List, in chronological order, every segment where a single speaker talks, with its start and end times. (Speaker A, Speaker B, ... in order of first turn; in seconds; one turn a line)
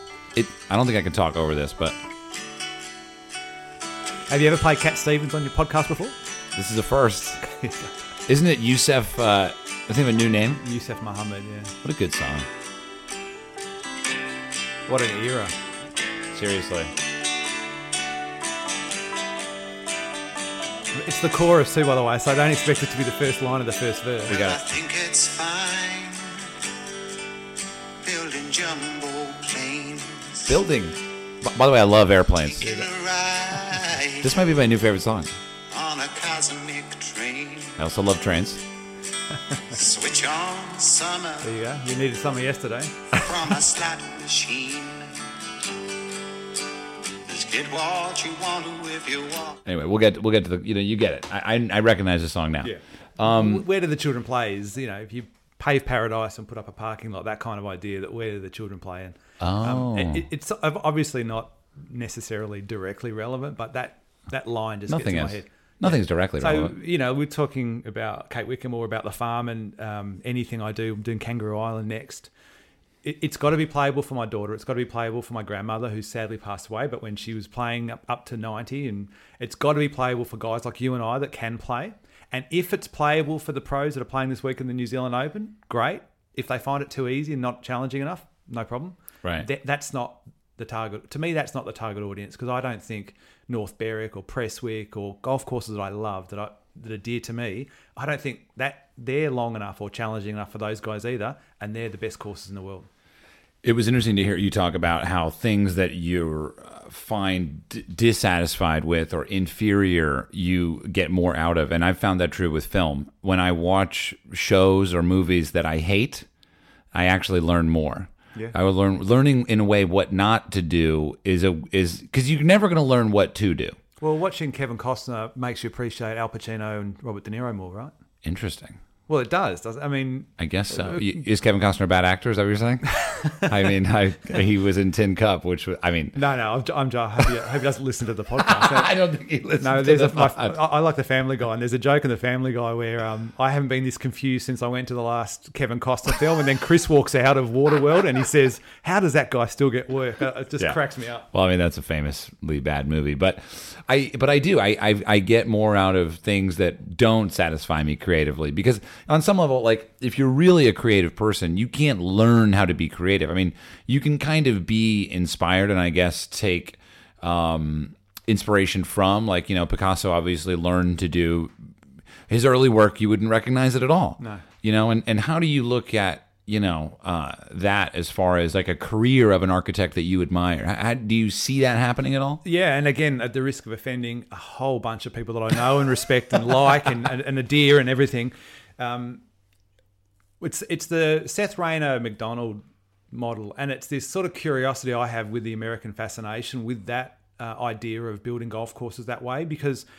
Speaker A: 0.3-2.0
Speaker B: 4.3-6.2
Speaker A: 6.5-7.4
Speaker B: 7.4-7.9
Speaker A: 8.3-10.6
Speaker B: 10.6-11.8
Speaker A: 11.8-12.5
Speaker B: 14.9-15.6
Speaker A: 16.3-16.9
Speaker B: 20.9-24.4
Speaker C: 24.3-26.6
Speaker A: 24.3-24.6
Speaker C: 28.0-30.6
Speaker A: 30.5-32.7
Speaker C: 32.6-34.4
Speaker B: 32.6-32.9
Speaker A: 34.2-35.4
Speaker C: 35.7-37.8
Speaker A: 37.8-38.6
Speaker C: 39.7-41.5
Speaker B: 41.4-43.2
Speaker C: 43.1-45.4
Speaker C: 47.2-49.6
Speaker A: 49.6-53.6
Speaker B: 52.6-72.3
Speaker A: 59.4-60.2
Speaker A: 64.9-66.8
Speaker B: 73.0-102.9
Speaker A: 103.6-116.3
Speaker A: 116.9-123.8
Speaker B: 124.0-127.9
Speaker A: 128.2-128.8
Speaker B: 129.1-131.2
Speaker A: 130.4-136.2
Speaker B: 132.9-133.5
Speaker B: 136.1-138.9
Speaker A: 138.4-140.6
Speaker B: 139.6-151.3
Speaker A: 151.3-171.5
Speaker A: 172.3-182.4
Speaker B: 174.2-174.4
Speaker B: 182.4-189.2
Speaker B: 190.4-199.9